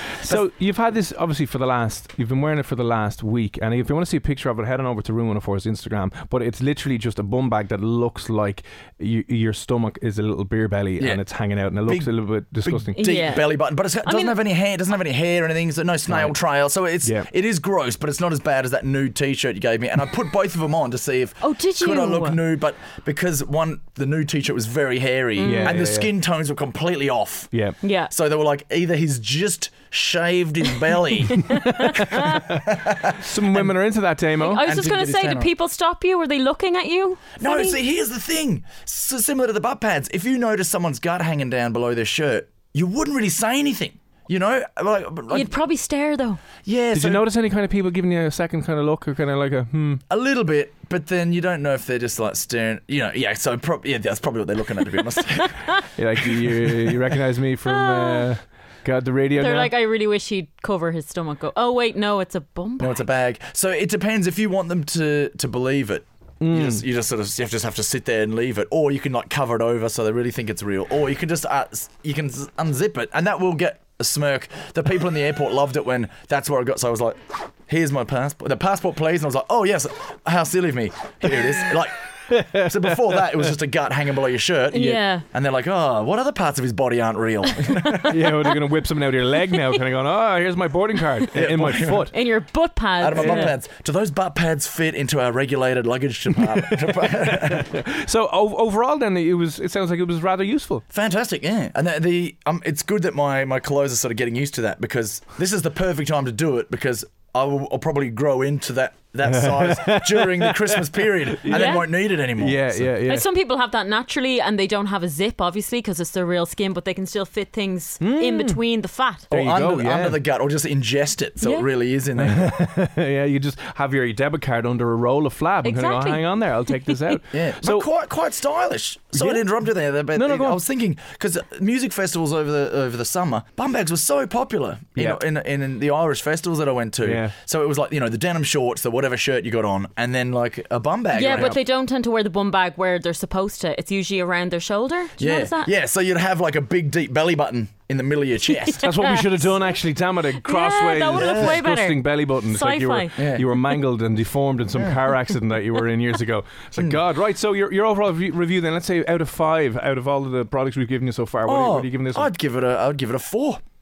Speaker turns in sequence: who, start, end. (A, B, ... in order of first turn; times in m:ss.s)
0:00.2-0:13.0 A
0:11.8-0:27.5 B
0:13.0-0:14.4 C
0:16.1-0:16.4 A
0:17.0-0:17.3 A
0:21.4-0:22.4 C
0:25.4-0:25.8 C
0:25.4-0:26.1 A
0:27.8-0:28.1 C
0:28.1-0:31.4 B
0:31.2-0:32.4 C
0:31.8-0:32.4 A
0:32.6-0:33.8 B
0:33.2-0:34.7 A
0:34.4-0:37.8 C
0:34.6-0:35.5 B
0:37.4-0:45.5 B
0:45.3-0:46.4 C
0:46.6-0:47.2 B
0:46.9-0:50.0 A
0:50.1-0:55.6 B
0:56.0-0:59.7 A
0:57.8-0:58.3 C
0:59.4-1:03.0 C
1:02.8-1:28.2 B
1:06.4-1:06.8 A
1:22.3-1:22.6 A
1:24.7-1:25.2 C
1:28.1-1:32.1 A
1:31.3-1:32.1 B
1:32.1-1:33.5 C
1:33.0-1:37.7 B
1:33.2-1:33.5 A
1:36.6-1:40.8 A
1:40.9-1:52.9 B
1:49.2-1:51.8 A
1:51.5-1:51.9 C
1:52.4-1:53.2 A
1:53.1-1:59.3 C
1:58.0-1:58.6 A
1:59.3-2:02.5 B
1:59.3-2:00.2 A
2:01.4-2:01.7 C
2:02.2-2:07.9 A
2:05.6-2:06.5 C
2:07.3-2:21.6 B
2:09.1-2:09.4 A
2:10.1-2:10.6 A
2:17.0-2:17.3 A
2:21.1-2:25.7 C
2:21.3-2:21.6 A
2:25.2-2:28.9 B
2:28.6-2:29.5 C
2:28.8-2:42.3 A
2:30.4-2:33.2 C
2:31.1-2:31.5 B
2:33.2-2:33.4 B
2:36.8-2:37.0 B
2:41.4-2:43.6 B